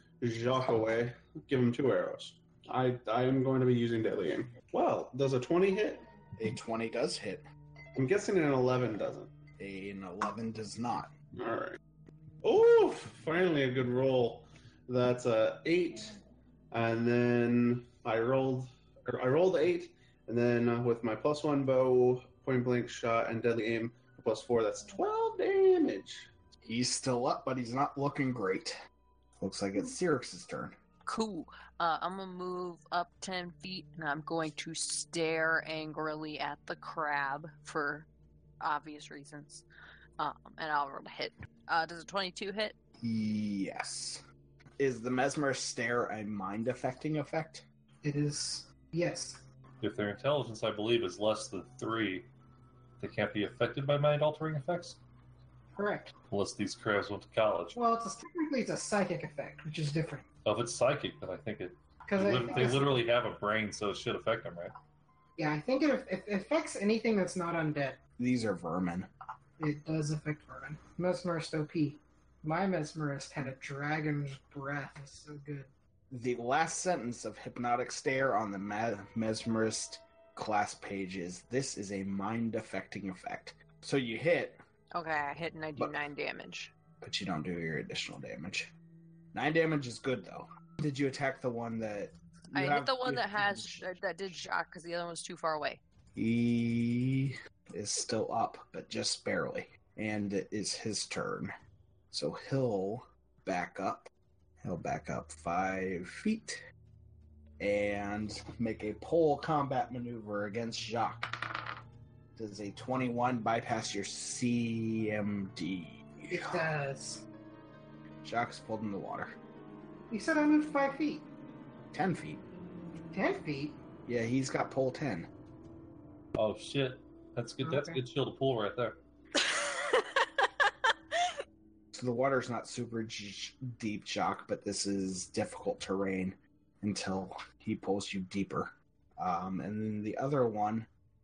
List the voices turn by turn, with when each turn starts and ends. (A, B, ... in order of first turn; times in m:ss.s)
0:00.2-0:06.1 A
0:06.4-0:07.4 B
0:08.0-0:09.3 A
0:09.6-0:11.1 B
0:11.3-0:11.8 A
0:12.4-0:16.2 A
0:16.7-0:26.3 A
0:26.6-0:28.8 B
0:29.4-0:30.8 B
0:31.0-0:38.1 C
0:38.6-0:39.6 C
0:40.2-0:42.7 C
0:43.0-0:44.2 B
0:44.8-0:47.6 B
0:48.0-0:49.4 D
0:49.8-0:52.3 E
0:53.0-0:55.0 E
0:55.8-0:56.1 D
0:56.3-0:57.8 E
0:57.7-1:00.2 D
1:00.4-1:04.7 E
1:02.0-1:03.0 D
1:05.4-1:08.0 D
1:08.2-1:09.1 B
1:09.6-1:15.7 D
1:16.1-1:24.6 B
1:24.9-1:26.7 C
1:27.0-1:28.7 B
1:29.3-1:33.8 B
1:32.5-1:35.8 C
1:36.2-1:41.5 B
1:42.1-1:44.1 B
1:44.6-1:46.6 B
1:47.6-1:51.7 B
1:52.4-1:56.6 B
1:56.3-1:57.2 D
1:58.2-1:59.3 B
2:00.1-2:01.2 D
2:01.9-2:02.4 B
2:03.1-2:03.8 D
2:04.0-2:05.3 B
2:06.4-2:09.0 E
2:07.6-2:08.0 D
2:09.4-2:11.3 C
2:11.9-2:20.9 B